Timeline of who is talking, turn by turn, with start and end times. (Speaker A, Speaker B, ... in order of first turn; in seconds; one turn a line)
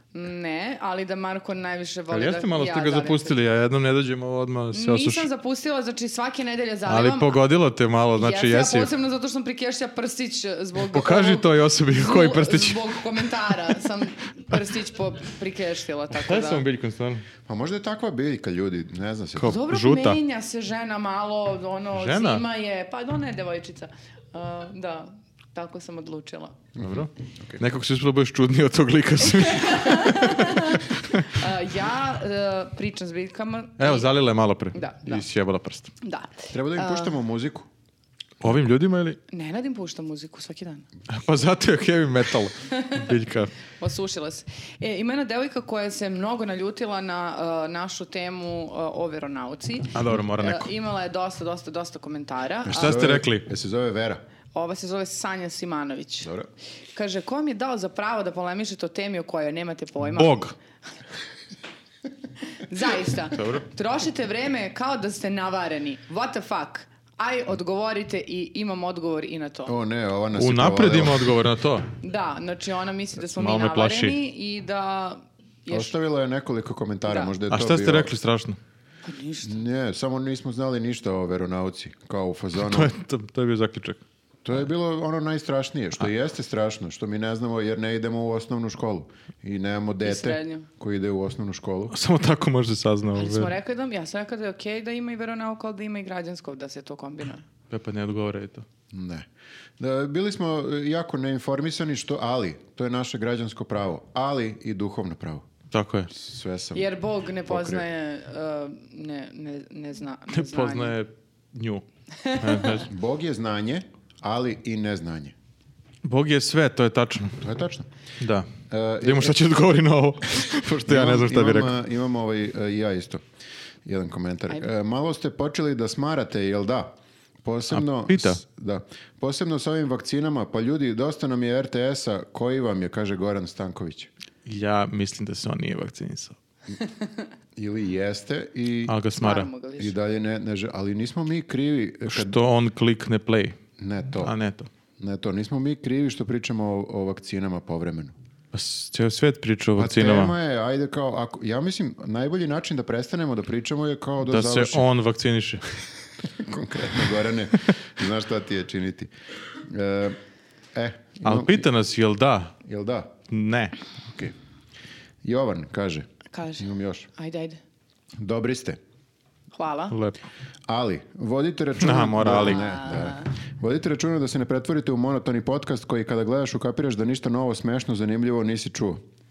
Speaker A: 0.1-3.3
Speaker B: 2.1-5.3
Speaker A: 4.7-7.4
Speaker B: 6.9-8.9
Speaker A: 8.2-16.7
Speaker B: 10.8-13.6
Speaker B: 16.1-17.3
Speaker C: 17.5-19.5
Speaker B: 19.4-20.2
Speaker A: 19.5-26.6
Speaker B: 21.9-22.5
Speaker C: 26.8-27.6
Speaker B: 26.8-31.5
Speaker A: 29.3-34.1
Speaker B: 33.8-35.9
Speaker A: 34.7-35.3
Speaker A: 36.0-37.2
Speaker C: 36.5-37.7
Speaker B: 38.4-39.2
Speaker A: 39.3-40.9
Speaker B: 41.1-43.5
Speaker A: 42.7-43.1
Speaker A: 43.7-53.0
Speaker B: 49.9-50.7
Speaker C: 52.7-54.2
Speaker B: 52.7-53.5
Speaker A: 54.5-56.3
Speaker C: 56.2-56.5
Speaker A: 57.0-60.5
Speaker B: 60.1-60.5
Speaker A: 62.5-69.8
Speaker B: 63.3-63.6
Speaker C: 69.7-71.3
Speaker B: 70.4-71.9
Speaker A: 72.0-75.9
Speaker B: 73.3-74.2
Speaker C: 75.7-78.1
Speaker A: 77.1-77.3
Speaker B: 77.5-78.6
Speaker A: 79.0-79.6
Speaker C: 79.4-82.9
Speaker B: 82.6-84.0
Speaker C: 84.5-92.0
Speaker A: 90.0-90.7
Speaker B: 91.9-93.5
Speaker A: 93.2-97.4
Speaker B: 97.7-98.7
Speaker C: 98.9-99.3
Speaker C: 99.8-105.5
Speaker B: 105.7-106.1
Speaker C: 106.1-106.9
Speaker A: 106.7-111.0
Speaker C: 107.5-107.8
Speaker B: 110.3-112.9
Speaker A: 112.2-112.8
Speaker C: 112.9-115.3
Speaker B: 116.0-117.4
Speaker C: 117.4-117.9
Speaker B: 118.2-118.5
Speaker C: 118.7-119.4
Speaker B: 119.0-121.7
Speaker C: 120.9-123.2
Speaker C: 123.8-134.1
Speaker B: 127.7-128.4
Speaker B: 134.5-136.4
Speaker C: 137.6-139.0
Speaker B: 138.9-139.5
Speaker A: 139.2-140.0
Speaker C: 139.8-142.4
Speaker B: 142.1-143.6
Speaker C: 143.8-144.3
Speaker B: 144.2-144.7
Speaker C: 145.0-148.1
Speaker B: 148.5-150.3
Speaker C: 149.8-154.9
Speaker B: 154.3-155.7
Speaker C: 156.3-160.2
Speaker C: 160.8-161.7
Speaker B: 161.2-162.5
Speaker C: 162.6-163.1
Speaker B: 163.3-163.8
Speaker C: 164.1-164.3
Speaker C: 165.2-166.1
Speaker A: 166.3-167.6
Speaker C: 166.6-167.1
Speaker C: 168.2-168.8
Speaker A: 169.5-170.0
Speaker B: 169.9-170.2
Speaker C: 170.7-179.0
Speaker B: 171.8-172.7
Speaker A: 172.3-173.3